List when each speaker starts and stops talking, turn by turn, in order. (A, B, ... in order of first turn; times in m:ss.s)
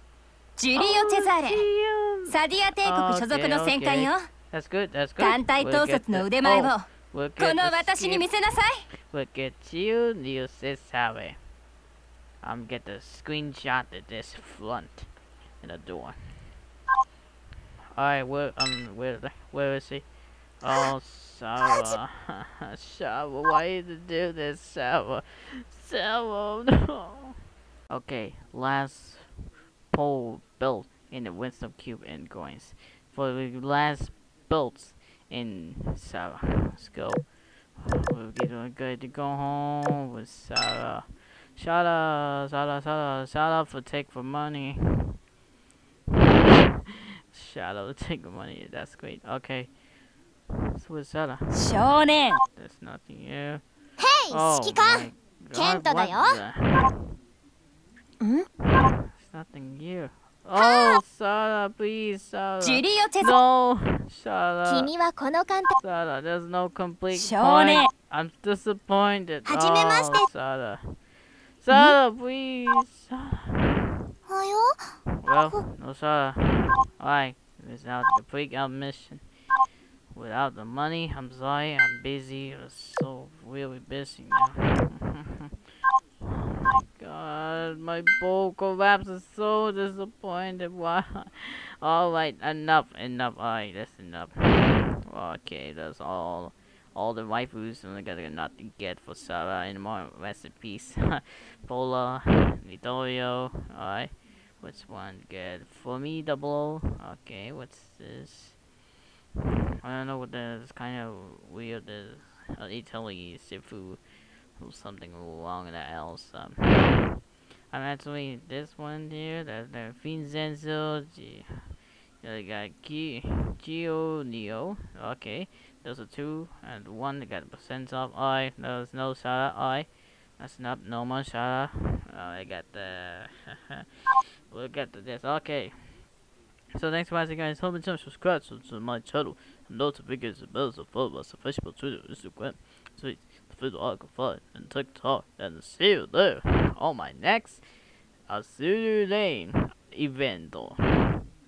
0:00.6-0:01.6 A
0:00.7-0:08.3 B
0:02.3-0:04.3 A
0:05.2-0:06.9 A
0:07.4-0:08.8 A
0:09.1-0:11.4 B
0:12.4-0:15.1 B
0:15.6-0:16.2 B
0:17.9-0:20.0 B
0:20.6-0:27.3 B
0:27.9-0:29.3 B
0:29.9-0:45.2 B
0:47.3-0:49.7 B
0:50.8-0:53.6 B
0:51.5-0:52.4 A
0:54.0-0:56.4 C
0:54.3-0:57.1 B
0:58.6-1:04.9 B
1:00.6-1:01.0 C
1:02.6-1:03.4 A
1:04.6-1:05.7 C
1:05.8-1:11.0 B
1:07.1-1:07.9 A
1:09.4-1:10.3 C
1:11.6-1:14.0 B
1:14.3-1:14.7 C
1:15.2-1:19.2 B
1:20.1-1:25.5 B
1:26.2-1:48.6 B
1:49.8-1:54.0 B
1:54.6-2:01.6 B
2:02.2-2:14.0 B
2:14.5-2:16.0 B
2:16.7-2:27.6 B
2:28.3-2:31.3 B